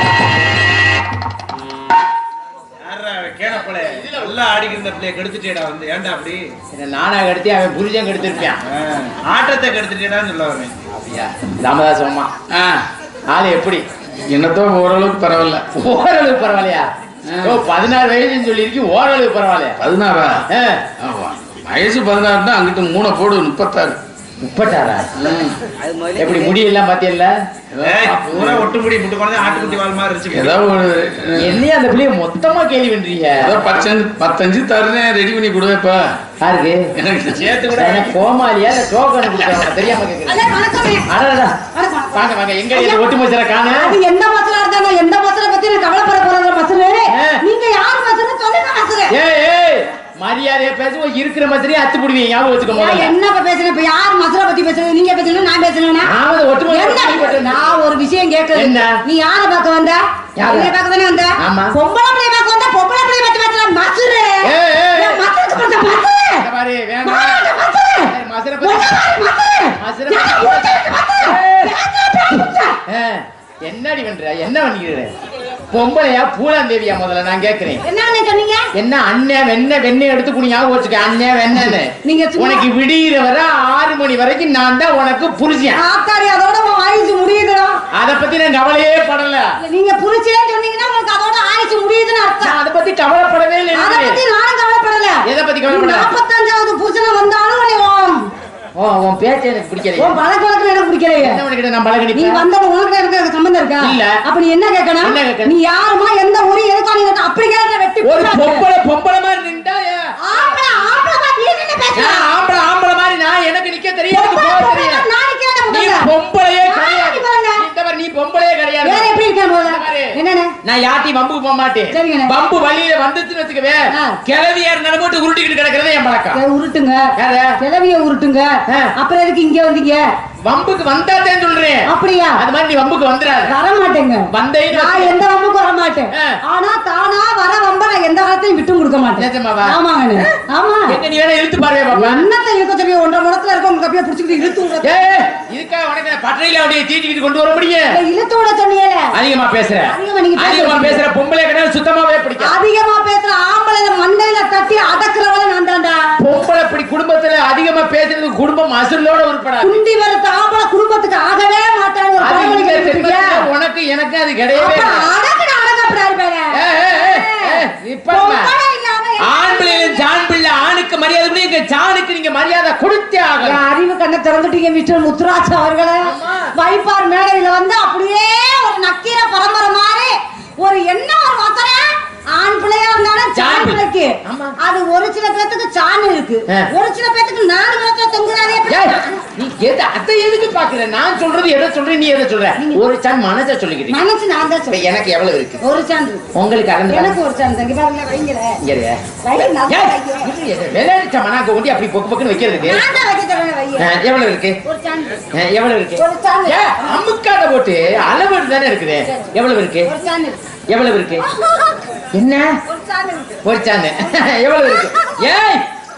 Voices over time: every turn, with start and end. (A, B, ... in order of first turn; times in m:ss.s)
0:02.8-0:06.5 A
0:03.8-0:04.4 B
0:06.7-0:08.6 B
0:08.7-0:11.2 A
0:11.6-0:12.3 B
0:12.5-0:12.8 C
0:13.3-0:13.8 B
0:14.3-0:15.6 C
0:15.7-0:16.9 B
0:17.3-0:17.6 C
0:17.4-0:19.8 B
0:19.8-0:20.4 C
0:20.5-0:20.9 B
0:21.0-0:24.0 C
0:24.4-0:25.1 B
0:25.2-0:25.6 C
0:26.2-0:27.3 B
0:27.8-0:28.7 C
0:27.8-0:30.6 A
0:30.3-0:31.6 C
0:31.4-0:33.6 B
0:33.4-0:36.0 C
0:36.4-0:36.8 B
0:37.0-0:37.5 C
0:37.3-0:38.2 A
0:37.8-0:40.4 B
0:40.3-0:41.1 D
0:41.1-0:41.6 B
0:41.7-0:43.0 D
0:42.1-0:44.0 B
0:43.7-0:49.2 D
0:47.1-0:47.4 B
0:49.1-0:53.1 B
0:52.7-0:56.1 D
0:56.0-0:57.7 B
0:56.7-1:06.5 D
0:58.5-0:59.0 B
1:00.4-1:00.7 B
1:01.4-1:01.7 B
1:04.4-1:05.2 B
1:06.4-1:07.5 B
1:07.0-1:12.8 D
1:08.0-1:09.1 B
1:09.8-1:11.8 B
1:12.9-1:15.1 B
1:15.7-1:17.8 B
1:17.8-1:18.7 D
1:18.8-1:25.8 B
1:21.6-1:22.7 D
1:25.8-1:27.8 D
1:27.9-1:29.5 B
1:29.6-1:32.6 D
1:32.4-1:34.2 B
1:33.7-1:38.3 D
1:35.2-1:36.1 B
1:38.8-1:40.2 B
1:40.0-1:41.4 D
1:41.2-1:42.4 B
1:42.1-1:48.7 D
1:43.8-1:44.2 B
1:45.0-1:45.5 B
1:48.0-1:50.6 B
1:50.2-1:52.3 D
1:52.0-1:55.0 B
1:54.1-1:56.1 D
1:55.7-1:59.1 B
1:56.6-1:57.7 D
1:58.8-2:00.5 D
1:59.6-2:00.1 B
2:00.6-2:06.4 B
2:01.9-2:02.4 D
2:03.9-2:04.2 D
2:06.3-2:07.1 D
2:07.2-2:07.6 B
2:07.6-2:10.1 D
2:08.7-2:08.9 B
2:10.4-2:13.5 B
2:11.9-2:12.4 D
2:13.4-2:21.0 D
2:14.3-2:15.2 B
2:19.2-2:20.3 B
2:20.9-2:22.3 B
2:21.9-2:24.9 D
2:24.8-2:27.9 B
2:27.9-2:29.2 D
2:29.1-2:32.6 B
2:29.9-2:31.0 D
2:32.4-2:36.0 D
2:36.2-2:39.8 B
2:39.6-2:43.5 D
2:42.2-2:45.1 B
2:44.6-2:50.1 D
2:46.5-2:48.5 B
2:49.2-2:53.6 B
2:53.4-3:09.2 D
2:56.0-2:56.5 B
3:03.4-3:04.6 B
3:08.7-3:14.0 B
3:12.6-3:12.8 D
3:13.9-3:14.8 D
3:14.7-3:15.6 B
3:15.6-3:16.2 D
3:16.3-3:17.2 B
3:16.9-3:18.6 D
3:18.6-3:19.0 B
3:19.2-3:20.3 D
3:19.7-3:22.8 B
3:22.6-3:23.9 D
3:23.8-3:24.6 B
3:24.6-3:25.2 D
3:25.4-3:29.9 B
3:26.0-3:27.0 D
3:29.8-3:30.4 D
3:30.7-3:31.2 B
3:31.3-3:31.8 D
3:32.1-3:32.5 B
3:32.7-3:33.5 D
3:33.4-3:35.6 B
3:34.7-3:35.2 D